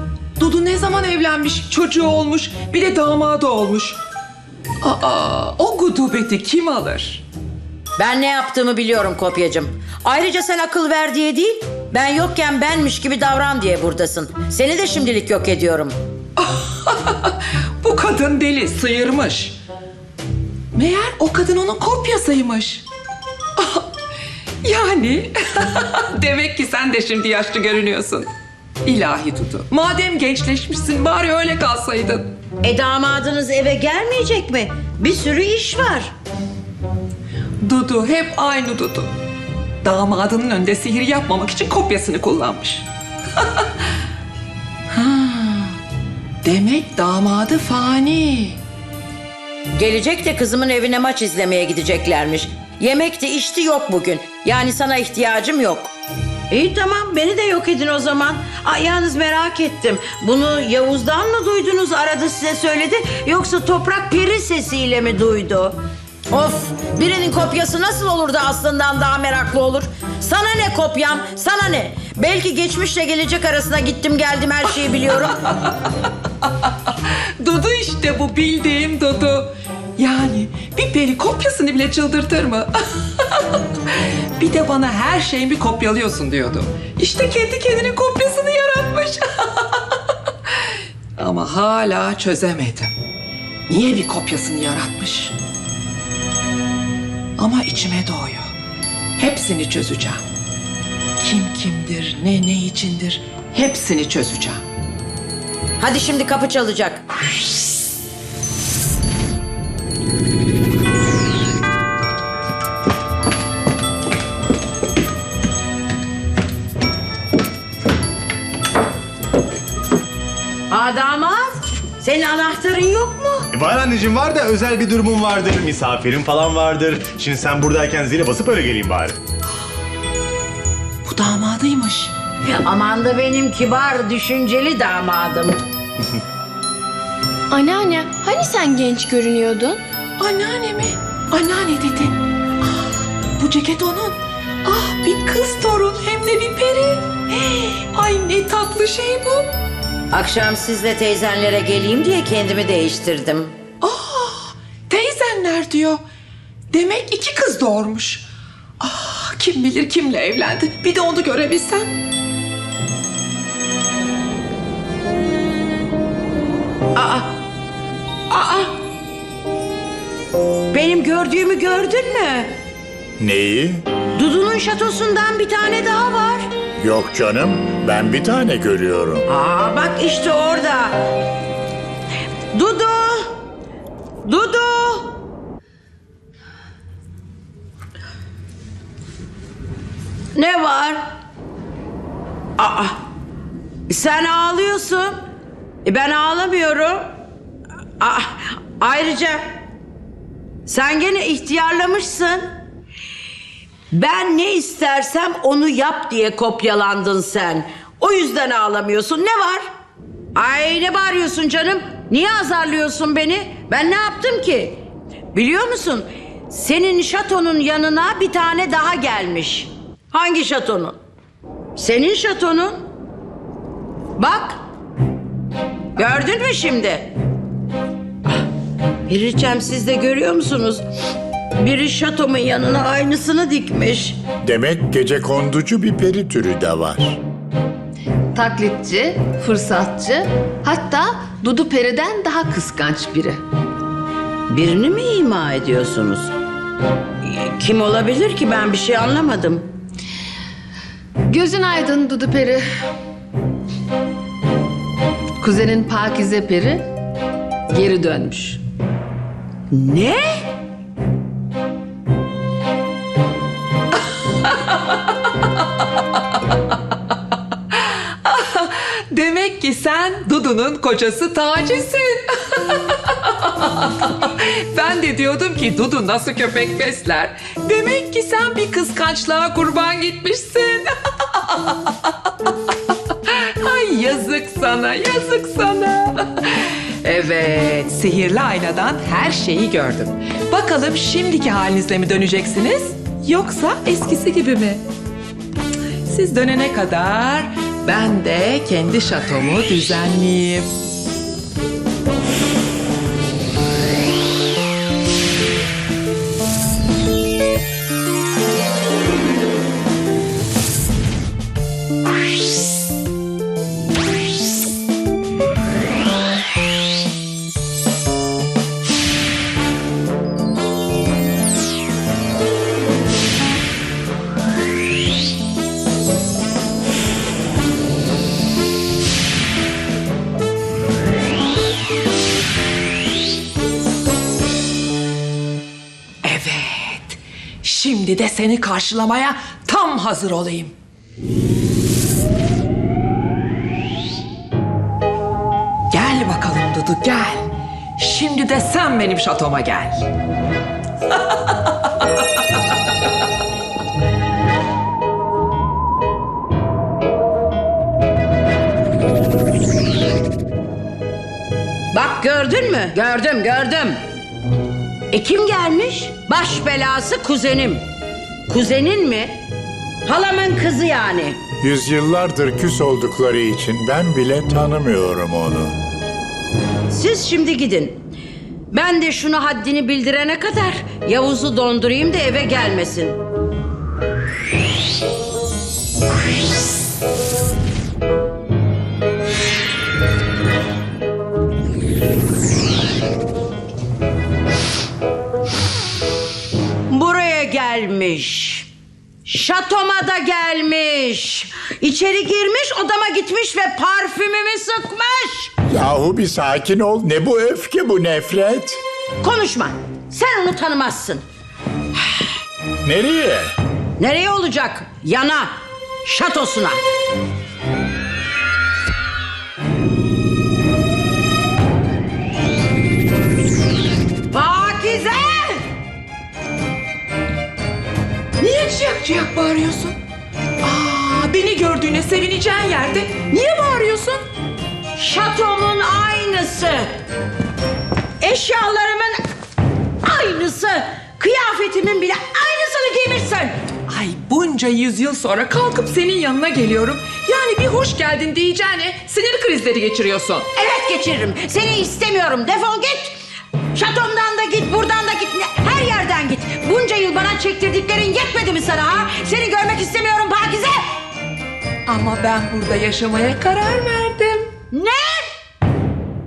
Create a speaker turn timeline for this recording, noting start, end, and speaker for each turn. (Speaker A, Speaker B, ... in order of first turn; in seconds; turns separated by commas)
Speaker A: 0.4-4.0, Speaker A: 4.8-7.2, Speaker B: 8.0-15.9, Speaker A: 16.4-19.6, Speaker A: 20.7-22.9, Speaker A: 23.6-23.9, Speaker A: 24.6-28.3, Speaker A: 28.8-32.3, Speaker B: 32.6-36.1, Speaker A: 37.6-39.1, Speaker A: 39.8-43.7, Speaker A: 44.9-45.8, Speaker A: 46.4-48.6, Speaker B: 49.8-55.9, Speaker B: 56.5-65.8, Speaker B: 66.3-75.4, Speaker A: 75.5-75.9, Speaker A: 77.1-90.0, Speaker A: 91.2-92.9, Speaker A: 93.7-95.4, Speaker A: 97.4-98.5, Speaker A: 99.2-100.2, Speaker A: 101.2-104.6, Speaker B: 105.8-107.0, Speaker B: 120.7-123.5, Speaker C: 123.5-129.2, Speaker A: 131.1-132.1, Speaker B: 132.5-135.6, Speaker D: 137.5-139.8, Speaker A: 140.2-142.2, Speaker A: 143.4-149.5, Speaker B: 150.1-153.6, Speaker A: 153.8-156.0, Speaker A: 156.7-158.3, Speaker A: 158.8-161.9, Speaker B: 166.9-167.3, Speaker B: 168.3-168.7, Speaker B: 170.7-172.5, Speaker E: 173.2-173.8, Speaker B: 174.2-176.5, Speaker E: 176.8-179.2, Speaker B: 179.3-181.0, Speaker B: 182.5-183.3, Speaker B: 184.2-185.1, Speaker B: 190.3-191.0, Speaker B: 192.6-193.0, Speaker B: 193.9-195.2, Speaker B: 195.8-197.1, Speaker B: 198.0-199.4, Speaker B: 200.7-202.5, Speaker B: 203.9-209.7, Speaker B: 210.3-214.8, Speaker B: 215.3-221.0, Speaker B: 221.8-222.8, Speaker B: 224.2-224.6, Speaker B: 226.0-227.1, Speaker B: 229.1-230.8, Speaker B: 231.6-234.2, Speaker E: 234.4-237.2, Speaker F: 238.3-243.4, Speaker B: 244.5-246.3, Speaker B: 247.2-249.7, Speaker F: 251.3-252.7, Speaker F: 255.4-256.9, Speaker F: 257.7-258.6, Speaker B: 259.7-260.4, Speaker A: 267.7-282.1, Speaker A: 283.1-294.8, Speaker A: 296.1-300.7, Speaker A: 336.2-340.7, Speaker A: 345.9-350.1, Speaker B: 361.9-364.0, Speaker B: 365.1-367.9, Speaker B: 368.5-369.4, Speaker B: 370.1-371.4, Speaker E: 371.6-375.8, Speaker B: 376.9-378.0, Speaker B: 378.7-383.2, Speaker B: 396.9-398.7, Speaker B: 399.2-405.5, Speaker E: 405.7-408.8, Speaker B: 409.2-411.2, Speaker E: 412.8-413.5, Speaker B: 414.0-415.5, Speaker B: 416.0-416.8, Speaker B: 424.3-425.6, Speaker A: 428.4-430.0, Speaker A: 430.6-434.2, Speaker B: 434.9-436.9, Speaker B: 438.2-439.2, Speaker B: 440.0-443.6, Speaker A: 443.9-450.5, Speaker B: 450.5-453.2, Speaker B: 453.7-460.9, Speaker A: 461.9-464.5, Speaker B: 464.7-465.3